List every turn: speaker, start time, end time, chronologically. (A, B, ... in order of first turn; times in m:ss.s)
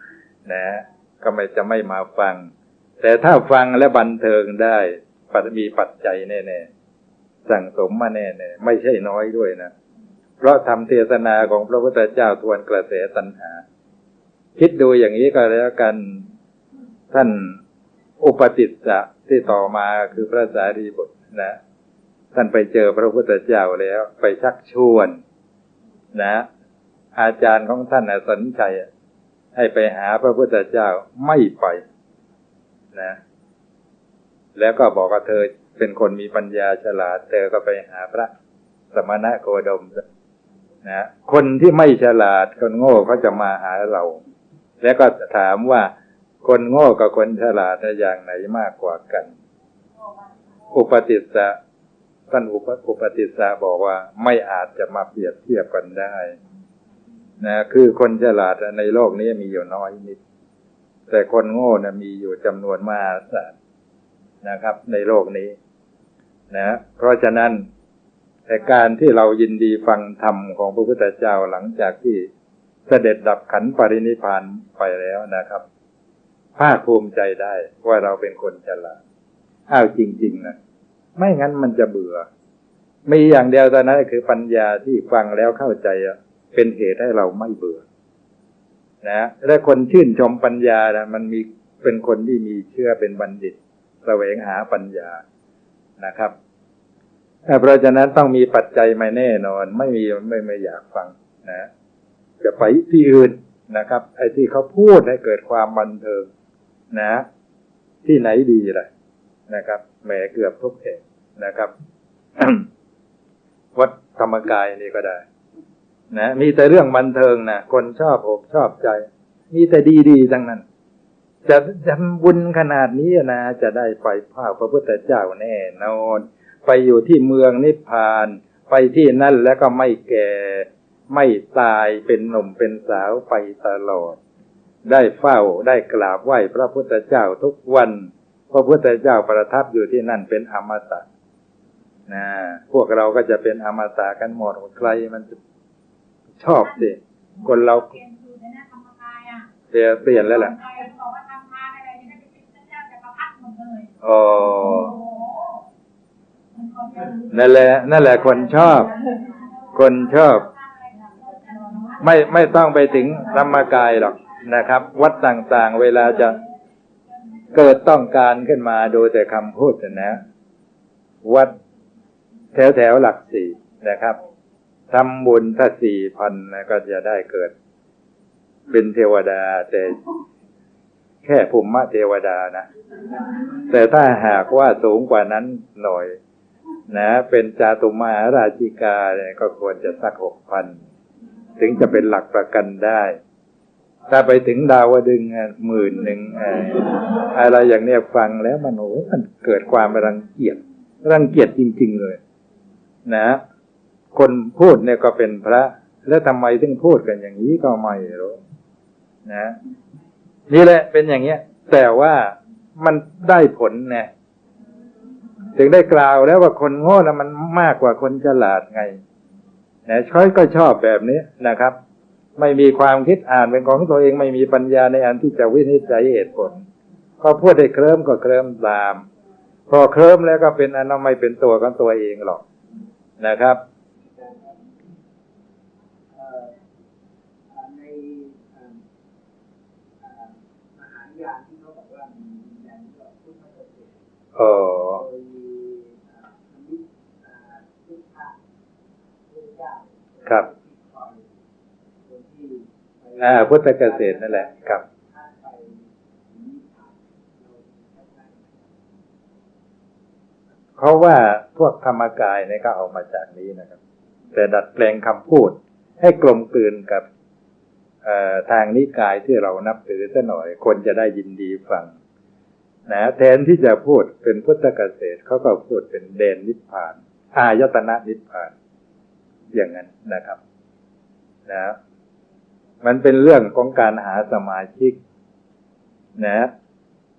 0:00.4-0:06.7 A
0:07.4-0:09.7 A
0:10.4-0:13.6 A
0:14.6-0:16.2 A
0:17.1-0:17.6 A
0:18.2-0:21.6 A
0:22.3-0:25.2 A
0:26.1-0:26.5 A
0:27.2-0:28.9 A
0:29.5-0:31.8 A
0:34.6-0:38.3 A
0:38.9-0:40.0 A
0:40.8-0:44.2 A
0:44.8-0:45.9 A
0:46.4-0:49.3 A
0:50.7-0:51.6 A
0:52.3-0:56.4 A
0:57.4-1:00.2 A
1:01.1-1:03.6 A
1:04.4-1:05.6 A
1:06.5-1:07.6 A
1:08.5-1:12.3 A
1:12.9-1:15.6 A
1:16.6-1:19.0 A
1:19.7-1:20.5 A
1:21.2-1:22.2 A
1:23.0-1:27.8 A
1:29.0-1:35.2 A
1:36.0-1:36.3 A
1:37.4-1:41.7 A
1:42.4-1:46.3 A
1:46.9-1:47.2 A
1:48.0-1:48.9 A
1:49.5-1:51.7 A
1:52.4-1:52.7 A
1:53.7-1:55.2 A
1:56.1-2:00.6 A
2:01.4-2:14.2 A
2:14.8-2:21.0 A
2:22.1-2:25.4 A
2:26.4-2:28.0 A
2:28.1-2:29.4 B
2:29.7-2:30.6 A
2:30.7-2:33.9 B
2:34.0-2:35.0 A
2:37.1-2:38.9 A
2:39.7-2:40.5 A
2:42.0-2:46.4 A
2:47.5-2:50.2 A
2:51.2-2:51.5 A
2:52.5-2:54.2 A
2:54.9-2:57.5 A
2:58.7-3:00.0 A
3:01.2-3:02.6 A
3:03.6-3:06.2 A
3:06.9-3:10.8 A
3:11.6-3:13.2 A
3:14.1-3:22.2 A
3:23.0-3:23.4 A
3:24.1-3:28.4 A
3:29.2-3:29.6 A
3:30.5-3:34.1 A
3:35.5-3:39.0 A
3:39.9-3:41.8 A
3:42.4-3:46.6 A
3:47.2-3:49.0 A
3:49.7-3:52.4 A
3:53.2-3:53.6 A
3:56.2-3:56.5 C
3:57.6-3:58.7 C
4:00.0-4:03.9 C
4:04.4-4:05.0 A
4:05.1-4:05.8 C
4:06.5-4:08.3 C
4:09.3-4:09.9 C
4:10.5-4:11.2 C
4:12.1-4:12.6 C
4:13.2-4:14.8 A
4:15.1-4:15.8 C
4:16.3-4:18.7 C
4:20.8-4:23.8 A
4:24.3-4:27.0 A
4:28.0-4:31.9 A
4:32.9-4:38.5 A
4:39.5-4:40.4 A
4:41.5-4:41.8 A
4:42.8-4:45.0 A
4:46.2-4:46.5 A